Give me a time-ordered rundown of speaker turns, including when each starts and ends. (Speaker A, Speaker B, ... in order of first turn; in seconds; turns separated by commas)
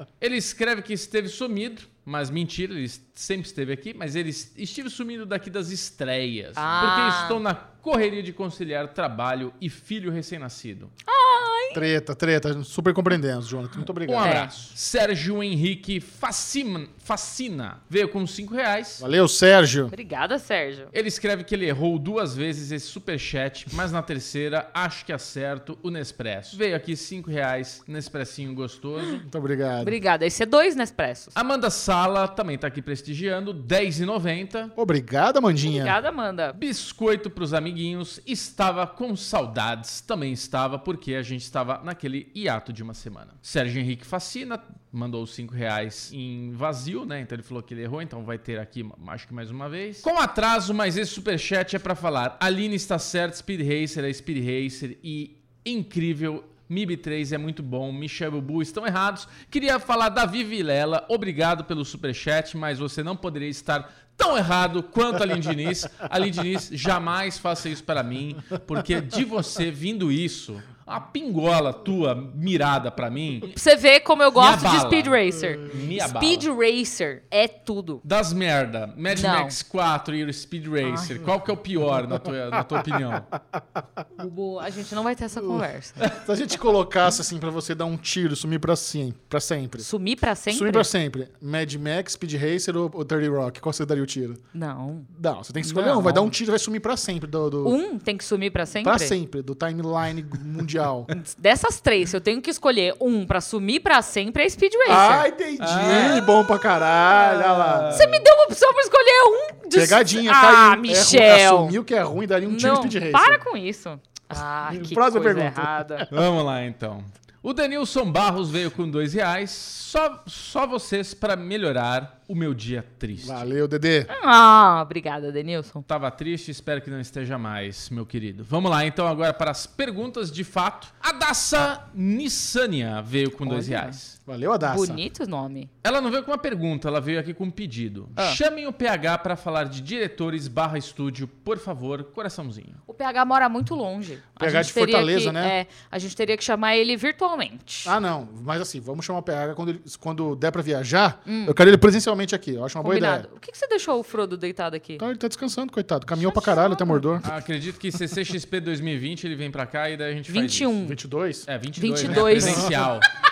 Speaker A: 0.2-10.9, Speaker B: 6.5-7.4, Speaker B: 11.1-11.8, Speaker C: 11.7-14.5, Speaker A: 14.1-19.0, Speaker B: 14.2-14.5, Speaker C: 19.0-19.9, Speaker B: 19.9-20.9, Speaker A: 20.9-29.2, Speaker C: 29.2-29.9, Speaker B: 29.8-31.3, Speaker A: 31.3-34.7, Speaker C: 34.8-36.0, Speaker B: 35.6-36.5, Speaker A: 36.5-73.5, Speaker B: 73.5-78.0, Speaker A: 74.3-76.5, Speaker A: 78.0-83.3, Speaker B: 79.1-79.6, Speaker B: 80.8-81.2, Speaker B: 84.2-86.1, Speaker C: 85.4-89.9, Speaker B: 89.8-90.9, Speaker C: 90.5-94.4, Speaker B: 94.5-95.1, Speaker C: 95.1-97.8, Speaker B: 95.6-96.3, Speaker B: 97.6-99.1, Speaker C: 98.8-101.1, Speaker B: 101.2-106.2, Speaker C: 104.8-108.1, Speaker A: 105.6-106.3, Speaker A: 107.1-108.2, Speaker B: 107.9-111.8, Speaker C: 109.7-113.4, Speaker B: 112.5-116.0, Speaker C: 114.7-116.1, Speaker A: 116.1-123.4, Speaker C: 123.2-124.1, Speaker B: 124.1-125.8, Speaker A: 125.9-134.2, Speaker B: 133.4-134.0, Speaker C: 134.2-135.0, Speaker B: 134.6-135.7, Speaker A: 135.8-142.8, Speaker B: 142.9-147.9, Speaker C: 144.4-145.6, Speaker C: 147.8-153.2, Speaker B: 151.2-151.6, Speaker B: 152.8-155.0, Speaker C: 155.0-157.3, Speaker B: 156.1-157.0, Speaker A: 157.2-160.8, Speaker B: 160.3-161.0, Speaker C: 160.8-161.5, Speaker A: 161.5-163.0, Speaker B: 161.8-162.7, Speaker C: 162.0-162.7